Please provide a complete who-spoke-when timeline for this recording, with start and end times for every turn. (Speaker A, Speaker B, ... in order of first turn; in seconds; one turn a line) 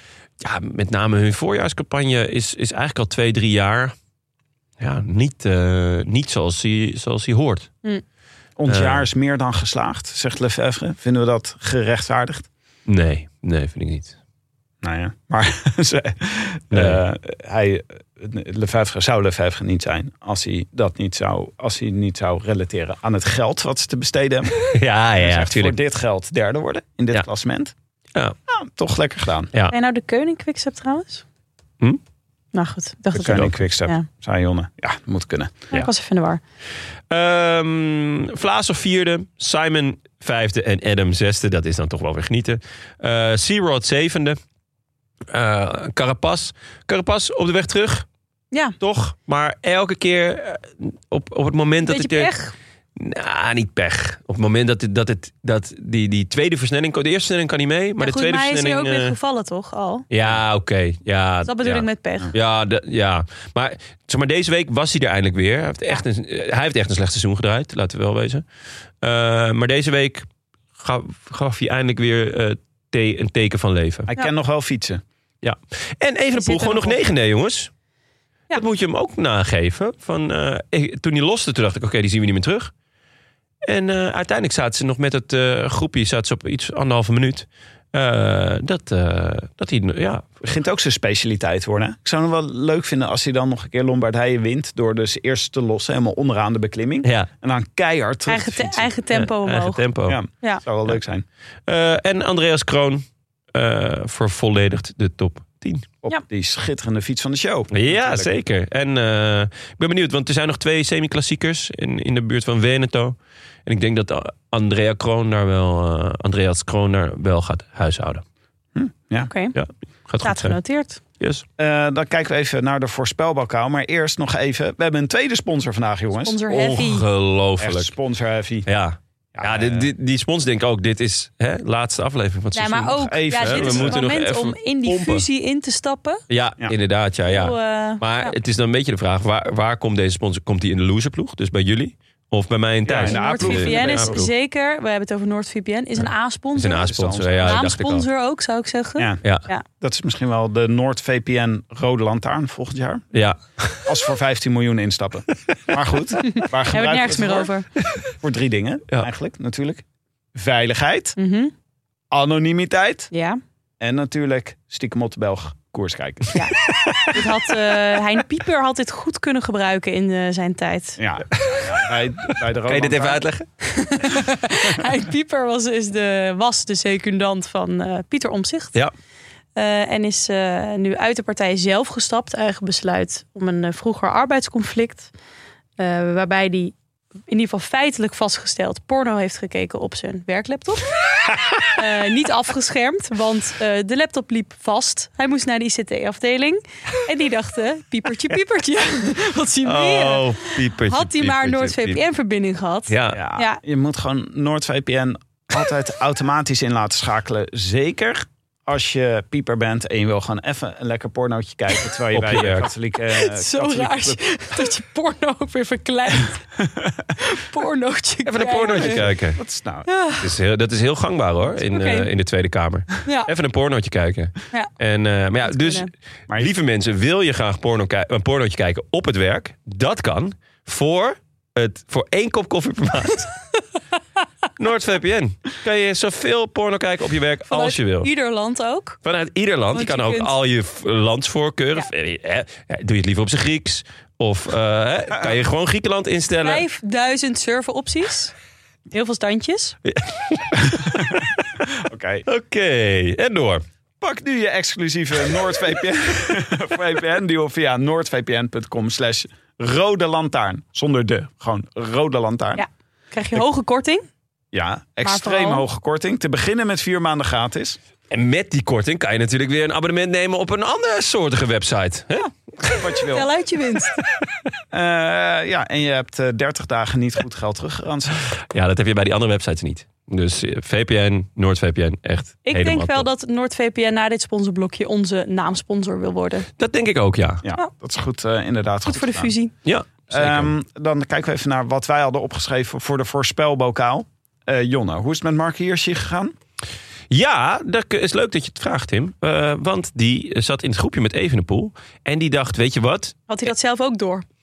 Speaker A: 0.4-3.9
Speaker A: 4.8-7.7
Speaker B: 8.6-12.5
Speaker A: 8.7-9.1
Speaker A: 12.9-14.2
Speaker B: 14.8-27.7
Speaker A: 16.7-17.0
Speaker A: 24.6-25.8
Speaker B: 28.5-29.5
Speaker C: 29.7-31.2
Speaker C: 32.5-34.0
Speaker B: 33.1-35.6
Speaker C: 35.7-36.4
Speaker A: 37.1-44.4
Speaker A: 45.3-48.0
Speaker A: 48.8-52.3
Speaker C: 51.9-52.5
Speaker A: 53.0-59.1
Speaker C: 58.0-60.1
Speaker A: 60.1-68.4
Speaker C: 61.4-62.3
Speaker A: 69.0-74.1
Speaker B: 74.1-75.0
Speaker A: 75.4-77.7
Speaker C: 76.3-77.0
Speaker A: 78.5-82.7
Speaker A: 83.6-90.5
Speaker B: 90.4-98.9
Speaker A: 97.0-97.3
Speaker C: 98.3-99.8
Speaker A: 99.1-100.2
Speaker B: 100.1-101.2
Speaker A: 101.7-105.9
Speaker B: 106.0-108.3
Speaker A: 107.7-113.2
Speaker A: 113.7-118.2
Speaker B: 118.8-119.3
Speaker C: 119.3-119.6
Speaker A: 119.5-120.6
Speaker C: 120.2-121.0
Speaker A: 121.2-121.4
Speaker B: 121.6-126.4
Speaker C: 126.2-127.0
Speaker A: 126.5-127.9
Speaker B: 127.6-128.7
Speaker A: 128.7-135.2
Speaker B: 129.3-129.9
Speaker C: 132.5-136.2
Speaker B: 133.0-134.0
Speaker A: 136.3-144.3
Speaker C: 137.3-138.4
Speaker B: 142.9-144.2
Speaker C: 143.1-149.6
Speaker A: 146.6-148.1
Speaker B: 146.8-147.8
Speaker B: 149.0-153.1
Speaker A: 153.1-153.9
Speaker B: 153.9-157.5
Speaker C: 156.3-157.7
Speaker B: 158.2-159.8
Speaker B: 160.3-161.2
Speaker C: 161.2-161.5
Speaker B: 162.1-163.1
Speaker C: 163.1-163.4
Speaker B: 163.8-167.2
Speaker C: 166.3-171.0
Speaker B: 171.0-173.3
Speaker A: 171.3-171.8
Speaker A: 172.3-173.5
Speaker C: 173.6-178.8
Speaker C: 179.6-185.1
Speaker C: 185.8-186.8
Speaker C: 187.3-190.9
Speaker C: 191.7-203.6
Speaker A: 199.6-202.0
Speaker A: 202.9-203.2
Speaker B: 203.1-214.2
Speaker A: 212.1-212.7
Speaker C: 213.1-216.5
Speaker B: 216.8-217.0
Speaker C: 217.2-219.1
Speaker A: 218.3-219.4
Speaker B: 218.7-219.9
Speaker C: 219.9-220.3
Speaker A: 220.2-233.3
Speaker C: 221.6-222.1
Speaker C: 223.1-223.3
Speaker C: 225.4-225.9
Speaker A: 234.6-238.1
Speaker C: 237.5-239.0
Speaker A: 239.0-246.7
Speaker C: 239.7-240.3
Speaker C: 246.4-248.3
Speaker C: 248.9-249.8
Speaker A: 249.8-251.4
Speaker B: 250.6-252.3
Speaker A: 252.3-253.6
Speaker B: 254.0-262.6
Speaker C: 262.6-264.1
Speaker B: 264.5-267.8
Speaker C: 265.1-265.6
Speaker A: 268.1-272.9
Speaker B: 272.8-273.3
Speaker C: 273.1-274.0
Speaker B: 274.7-278.3
Speaker A: 278.5-283.1
Speaker C: 282.4-286.5
Speaker A: 286.6-287.4
Speaker B: 287.4-289.3
Speaker C: 288.9-289.5
Speaker A: 289.6-290.5
Speaker B: 290.1-296.4
Speaker A: 297.1-303.2
Speaker C: 303.3-304.2